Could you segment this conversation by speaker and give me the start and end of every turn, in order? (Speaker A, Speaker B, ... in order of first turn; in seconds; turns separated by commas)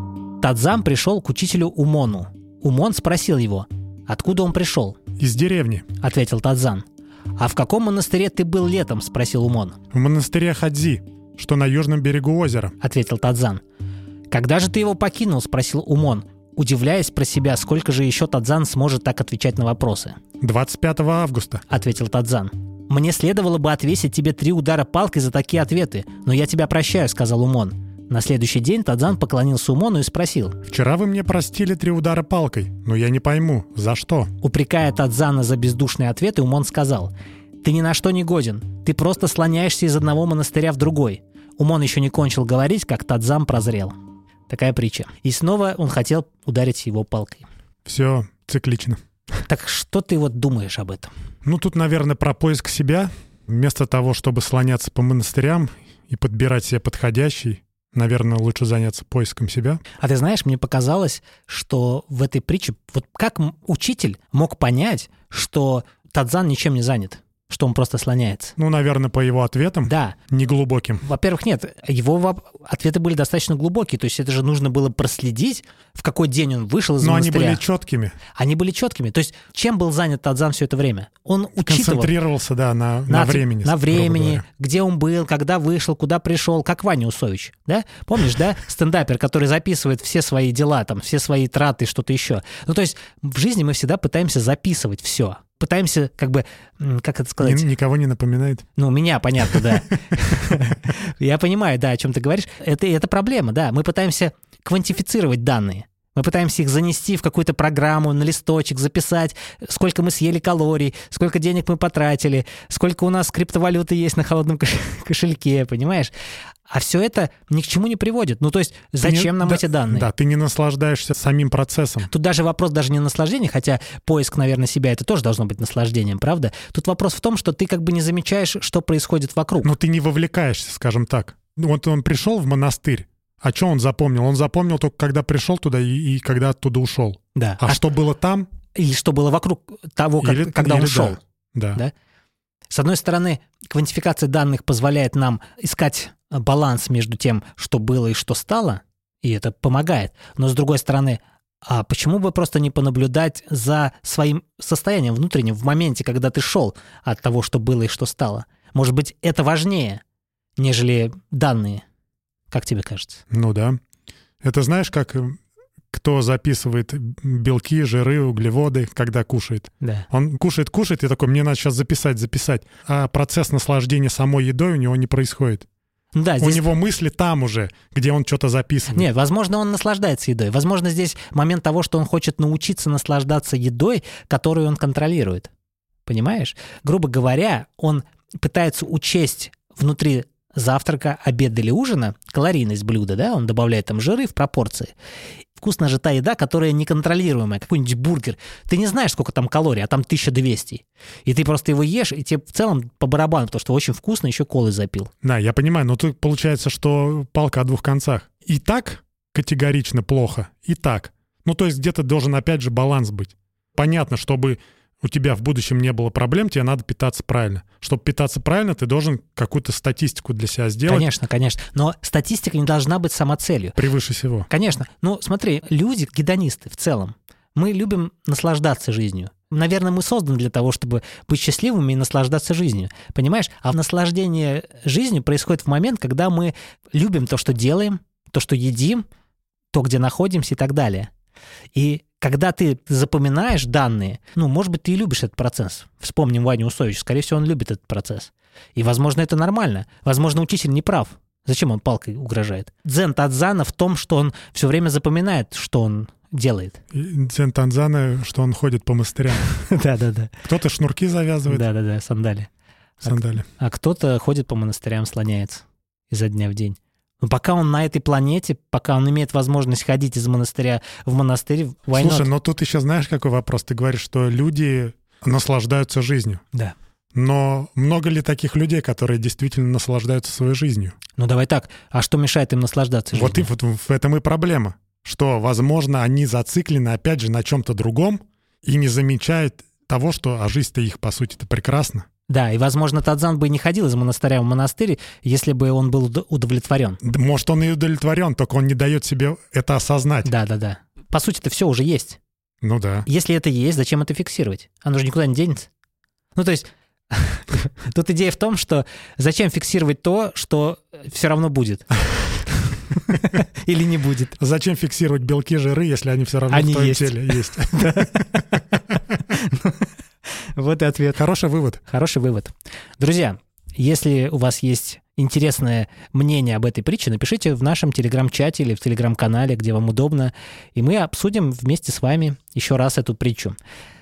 Speaker A: 0.4-5.0, Speaker B: 5.2-5.9, Speaker A: 6.0-6.8, Speaker A: 7.4-9.8, Speaker B: 9.9-12.7, Speaker A: 12.8-13.6, Speaker A: 14.3-20.2, Speaker B: 20.4-21.6, Speaker A: 21.7-30.6, Speaker B: 30.7-34.3, Speaker A: 34.4-43.9, Speaker A: 44.5-47.5, Speaker B: 47.8-49.0, Speaker A: 49.5-51.1, Speaker B: 51.4-59.8, Speaker A: 60.0-68.5, Speaker B: 68.6-71.0, Speaker A: 69.8-70.2, Speaker A: 71.0-77.6, Speaker B: 77.0-78.2, Speaker A: 78.3-82.1, Speaker B: 81.7-84.4, Speaker A: 83.1-97.7, Speaker B: 97.4-98.6, Speaker A: 98.8-116.1, Speaker A: 116.7-120.1, Speaker B: 119.0-122.1, Speaker A: 122.1-129.7, Speaker B: 129.6-138.5, Speaker A: 137.3-137.8, Speaker A: 138.7-141.2, Speaker B: 140.2-141.8, Speaker A: 142.7-160.0, Speaker A: 160.6-161.8, Speaker A: 162.5-163.2, Speaker B: 163.3-163.8, Speaker B: 164.4-165.4, Speaker B: 165.9-175.7, Speaker A: 169.8-170.1, Speaker A: 176.1-176.6, Speaker B: 176.4-179.1, Speaker A: 178.9-185.5, Speaker A: 186.1-194.9, Speaker A: 195.6-205.1, Speaker B: 205.2-221.1, Speaker A: 220.9-223.8, Speaker B: 223.8-224.5, Speaker A: 224.5-239.0, Speaker A: 239.7-241.1, Speaker A: 241.7-256.8, Speaker B: 256.9-259.4, Speaker A: 259.3-260.3, Speaker B: 260.4-261.6, Speaker A: 261.5-262.5, Speaker A: 263.0-272.3, Speaker B: 263.0-263.4, Speaker B: 271.9-276.4, Speaker B: 277.1-280.9, Speaker A: 281.2-283.5, Speaker B: 283.1-292.1, Speaker A: 292.3-297.0, Speaker B: 297.0-300.3, Speaker A: 300.2-302.2, Speaker B: 302.6-303.1, Speaker A: 303.1-305.7, Speaker A: 306.3-314.4, Speaker B: 314.4-318.4, Speaker A: 316.5-318.4, Speaker A: 319.2-321.2, Speaker B: 321.1-321.8, Speaker A: 321.9-333.6